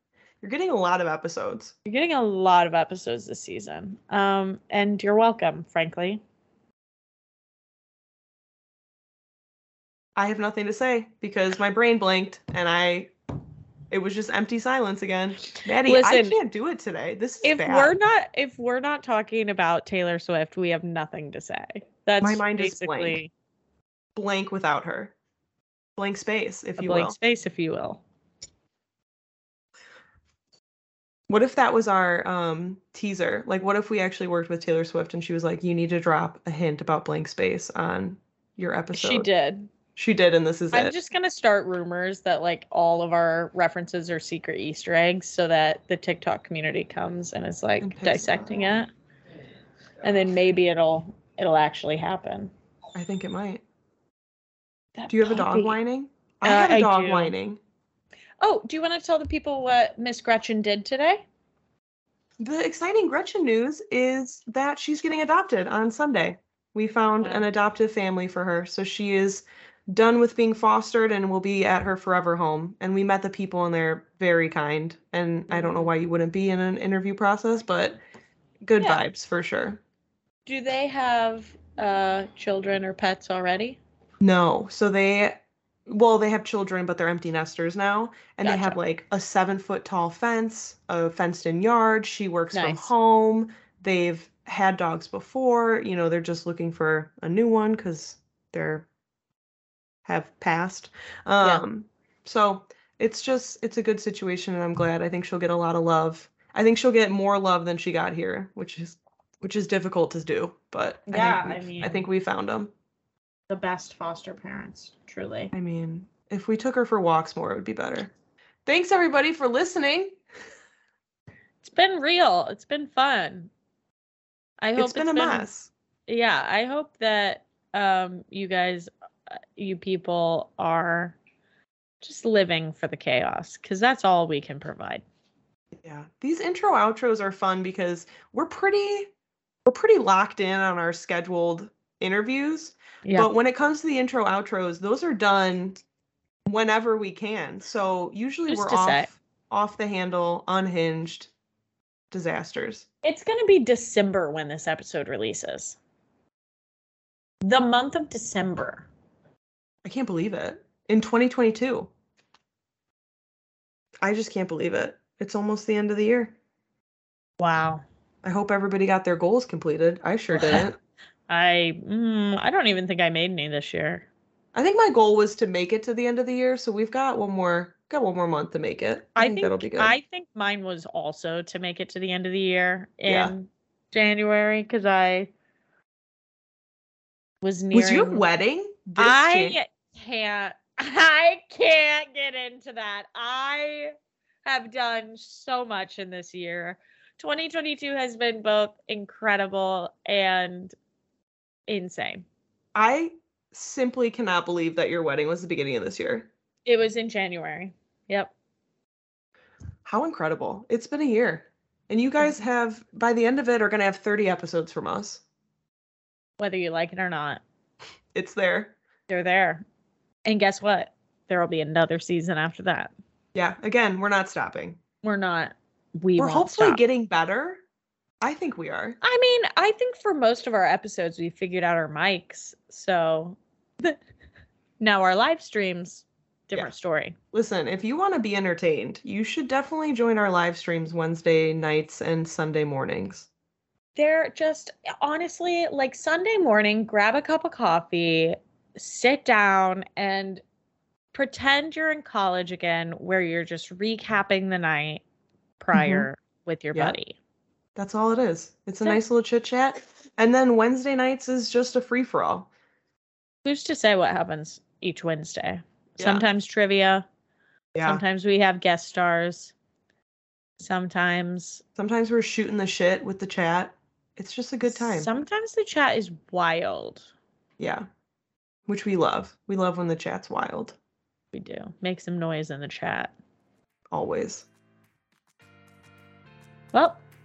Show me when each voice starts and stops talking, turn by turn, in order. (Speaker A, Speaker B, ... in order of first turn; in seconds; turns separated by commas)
Speaker A: 0.4-1.7, Speaker B: 1.9-6.2, Speaker A: 10.2-13.1, Speaker A: 13.9-17.9, Speaker B: 15.8-16.4, Speaker B: 17.4-23.3, Speaker A: 22.2-23.2, Speaker A: 24.1-25.1, Speaker A: 25.9-27.1, Speaker B: 26.8-28.0, Speaker A: 31.3-39.3, Speaker B: 38.9-39.7, Speaker A: 39.9-40.9, Speaker B: 40.7-48.9, Speaker A: 47.8-48.4, Speaker B: 50.0-52.5, Speaker A: 52.9-53.6, Speaker B: 55.0-55.8, Speaker A: 55.1-57.6, Speaker B: 56.4-57.3, Speaker B: 58.4-61.2, Speaker A: 62.4-78.0, Speaker B: 67.2-67.5, Speaker B: 75.5-75.9, Speaker A: 78.6-79.8, Speaker B: 80.5-83.8, Speaker A: 84.2-98.9, Speaker B: 88.4-88.8, Speaker B: 92.5-92.9, Speaker A: 100.0-112.7, Speaker B: 111.1-112.0, Speaker B: 113.5-115.5, Speaker A: 115.5-118.1, Speaker A: 118.7-120.2, Speaker B: 121.6-123.5, Speaker B: 124.6-125.5, Speaker A: 124.8-125.7, Speaker B: 126.1-131.2, Speaker B: 132.0-135.0, Speaker A: 135.8-139.1, Speaker A: 139.6-145.8, Speaker B: 143.0-143.3, Speaker A: 146.4-151.3, Speaker B: 148.5-149.1, Speaker A: 152.1-152.8, Speaker B: 153.0-155.8, Speaker B: 157.4-158.9, Speaker A: 159.8-161.9, Speaker A: 164.0-166.3, Speaker B: 167.4-167.8, Speaker A: 168.2-170.8, Speaker B: 170.3-170.7, Speaker B: 171.3-174.1, Speaker A: 174.5-179.9, Speaker B: 179.2-185.3, Speaker A: 183.0-183.3, Speaker B: 187.4-188.2, Speaker A: 187.7-189.6, Speaker B: 189.0-193.9, Speaker B: 194.4-200.8, Speaker B: 201.7-202.2, Speaker A: 202.7-206.3, Speaker B: 206.7-208.3, Speaker A: 209.8-215.2, Speaker B: 216.4-217.4, Speaker A: 218.1-218.8, Speaker B: 219.1-219.6, Speaker B: 220.2-222.9, Speaker A: 223.3-224.8, Speaker B: 225.0-226.8, Speaker A: 226.2-227.6, Speaker A: 228.2-229.0, Speaker B: 229.0-234.0, Speaker B: 234.8-237.2, Speaker A: 237.3-243.3, Speaker B: 243.9-250.4, Speaker B: 251.1-255.0, Speaker B: 255.6-257.1, Speaker A: 255.7-256.1, Speaker A: 257.8-262.5, Speaker B: 263.4-267.1, Speaker A: 266.0-266.2, Speaker A: 267.7-268.0, Speaker B: 267.8-269.5, Speaker B: 270.6-271.6, Speaker A: 271.8-275.1, Speaker B: 274.6-277.1, Speaker A: 277.6-277.9, Speaker A: 278.7-280.8, Speaker B: 281.3-283.1, Speaker A: 283.9-284.4, Speaker B: 286.7-287.0